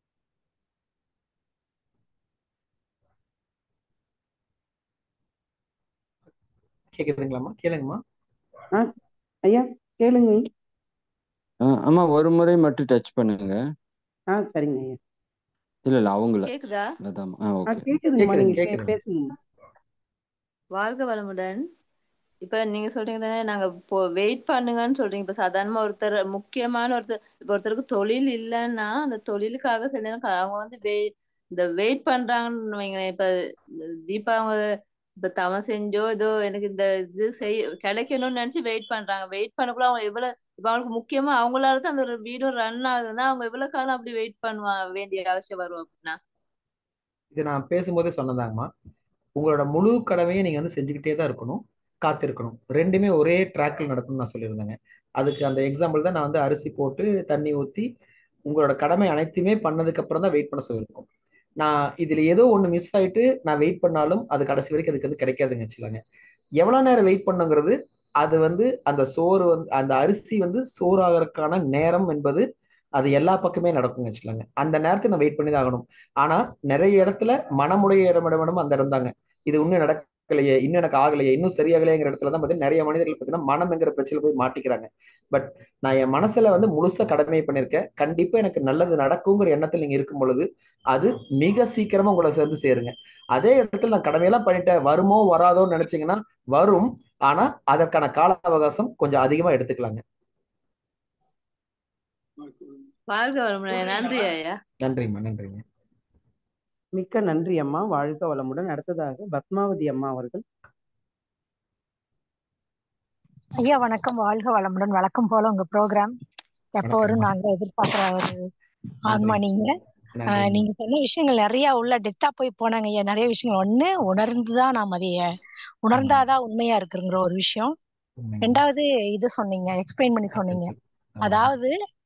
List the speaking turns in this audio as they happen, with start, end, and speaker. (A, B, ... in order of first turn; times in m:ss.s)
0:06.9-0:08.0 A
0:09.4-0:10.4 B
0:11.6-0:13.6 C
0:14.3-0:15.0 B
0:15.8-0:17.9 C
0:16.5-0:16.8 D
0:17.7-0:19.3 B
0:18.2-0:19.0 A
0:20.7-0:21.6 D
0:22.4-0:33.3 D
0:34.1-0:34.6 D
0:35.2-0:46.2 D
0:47.3-0:48.7 A
0:49.4-0:57.9 A
0:58.5-1:01.1 A
1:01.6-1:06.0 A
1:06.6-1:12.4 A
1:13.0-1:40.0 A
1:43.1-1:44.6 D
1:44.8-1:45.6 A
1:47.0-1:50.4 B
1:53.6-1:56.1 E
1:56.8-1:58.4 E
1:56.8-1:57.3 A
1:59.1-1:59.4 A
1:59.1-1:59.7 E
2:00.1-2:00.6 A
2:00.3-2:05.2 E
2:05.8-2:07.7 E
2:05.9-2:06.3 A
2:08.2-2:08.6 A
2:08.4-2:11.7 E
2:10.3-2:11.5 A